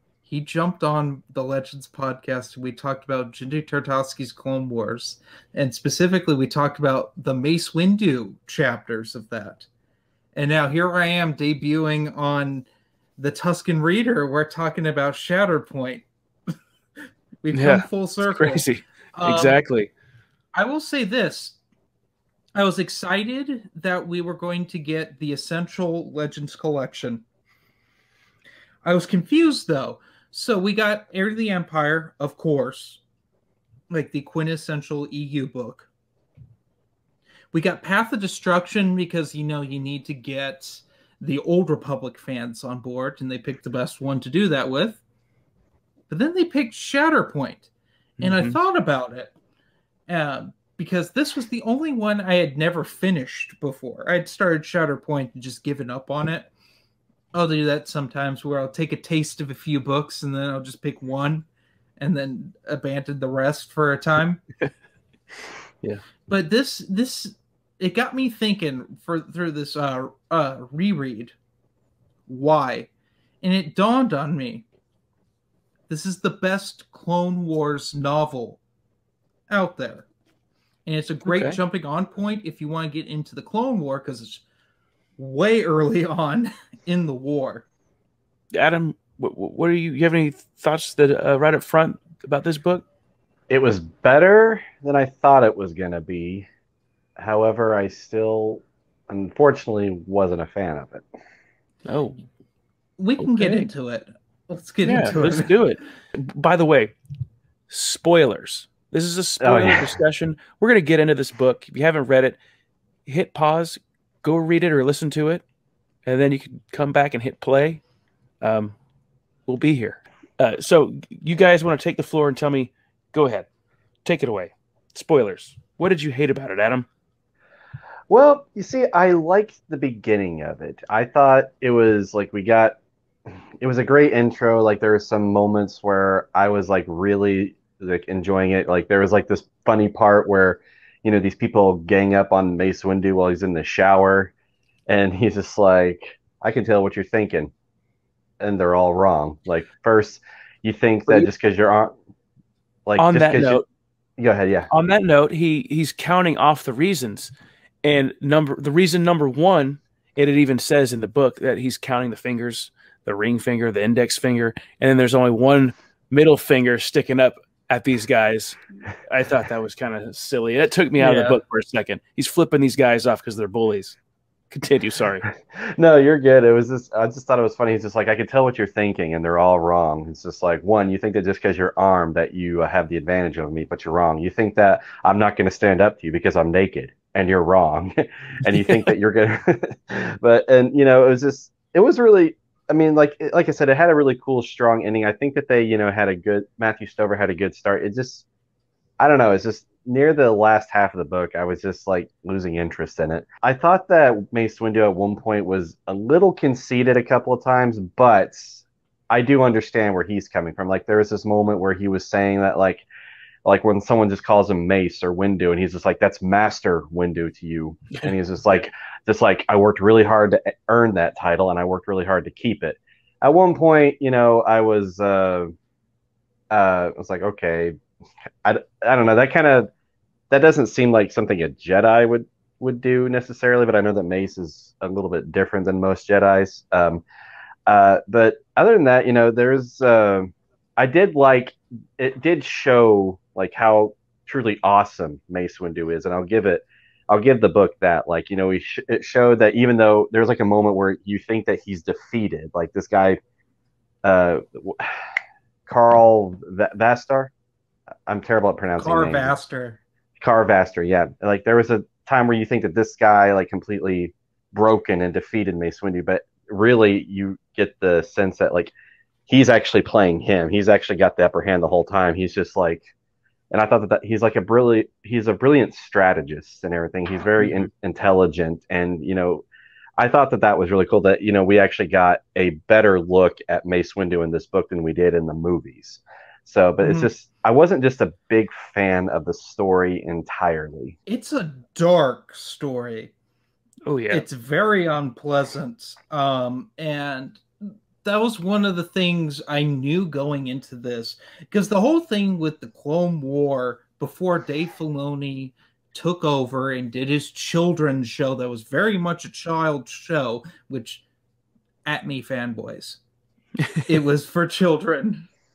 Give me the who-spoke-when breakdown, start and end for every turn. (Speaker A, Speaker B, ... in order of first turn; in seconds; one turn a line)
Speaker A: 0.3-9.7
Speaker A: 10.3-12.7
Speaker A: 13.2-16.1
Speaker A: 17.4-19.6
Speaker B: 17.5-19.9
Speaker A: 20.5-21.6
Speaker A: 22.5-27.2
Speaker A: 28.8-33.0
Speaker A: 33.9-35.9
Speaker A: 37.5-45.0
Speaker A: 46.1-47.7
Speaker B: 48.2-48.6
Speaker A: 48.2-49.3
Speaker A: 50.1-56.5
Speaker A: 57.3-61.5
Speaker A: 62.0-64.4
Speaker A: 66.3-71.3
Speaker A: 72.3-72.9
Speaker A: 73.4-74.6
Speaker A: 75.9-78.6
Speaker A: 79.5-80.0
Speaker A: 80.8-84.4
Speaker B: 81.2-81.6
Speaker A: 85.2-87.6
Speaker B: 88.5-92.8
Speaker C: 93.5-96.5
Speaker C: 97.2-101.0
Speaker B: 101.8-102.2
Speaker A: 103.0-105.5
Speaker B: 103.2-103.7
Speaker B: 104.8-106.9
Speaker B: 107.7-112.4
Speaker C: 109.4-109.9
Speaker B: 113.0-115.4
Speaker B: 116.0-117.8
Speaker B: 118.4-118.8
Speaker B: 119.5-123.5
Speaker B: 124.0-126.9
Speaker C: 128.1-132.8
Speaker C: 133.6-144.3
Speaker C: 144.9-147.5
Speaker C: 148.4-151.9
Speaker C: 152.8-153.6
Speaker B: 153.0-153.6
Speaker C: 154.2-154.7
Speaker B: 154.7-157.3
Speaker B: 157.8-174.0
Speaker A: 171.0-171.3
Speaker B: 174.5-175.2
Speaker C: 175.5-198.2
Speaker C: 199.0-212.8
Speaker C: 213.4-225.5
Speaker C: 226.5-227.8
Speaker C: 228.4-229.7
Speaker C: 230.3-237.0
Speaker C: 237.7-253.2
Speaker C: 254.0-254.9
Speaker C: 255.7-257.3
Speaker C: 258.1-259.4
Speaker A: 258.8-259.8
Speaker C: 260.2-268.7
Speaker C: 269.3-272.8
Speaker C: 273.5-279.4
Speaker C: 280.0-290.9
Speaker A: 286.8-287.1
Speaker A: 291.1-293.1
Speaker B: 293.9-294.2
Speaker A: 294.1-297.4
Speaker A: 298.0-311.0
Speaker A: 311.8-313.0
Speaker B: 313.6-313.9
Speaker A: 313.9-315.3